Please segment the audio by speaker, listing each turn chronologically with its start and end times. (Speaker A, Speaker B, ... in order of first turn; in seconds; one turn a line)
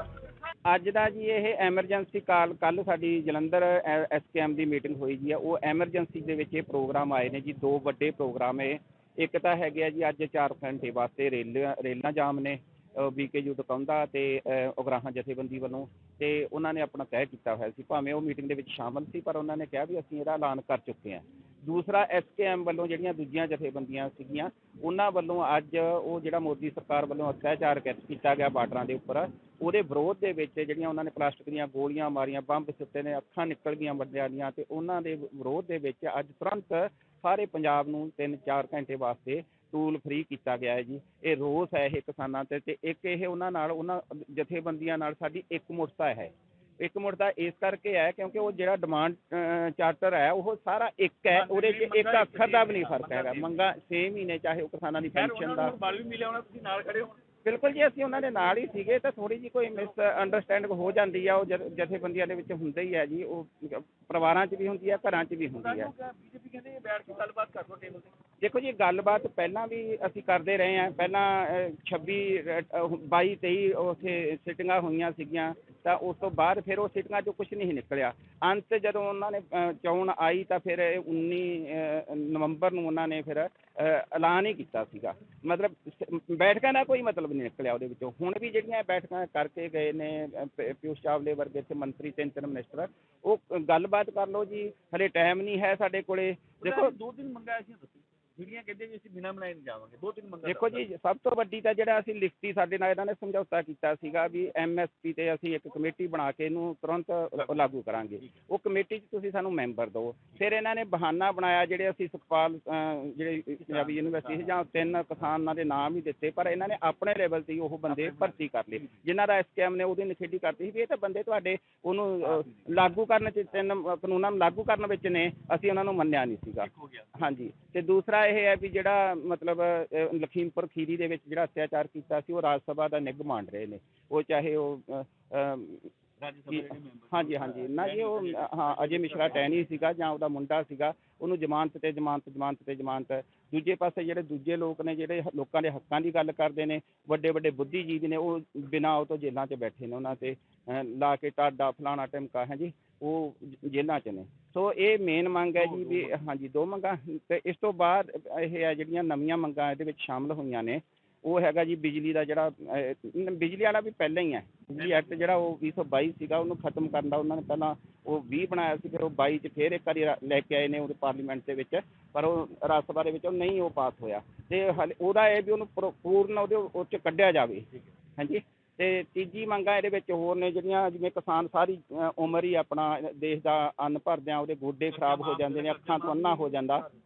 Speaker A: 0.7-55.7
Speaker B: 51.3-53.6
Speaker B: 55.1-57.1
Speaker A: 57.4-65.9
Speaker B: 65.6-68.1
Speaker A: 68.4-96.9
Speaker B: 96.6-100.8
Speaker A: 100.4-135.9
Speaker B: 107.3-107.7
Speaker B: 113.6-114.5
Speaker B: 117.9-118.9
Speaker B: 122.2-122.8
Speaker B: 126.6-127.2
Speaker B: 136.2-139.6
Speaker A: 136.5-186.9
Speaker B: 155.6-156.2
Speaker B: 164.8-165.1
Speaker B: 184.9-186.7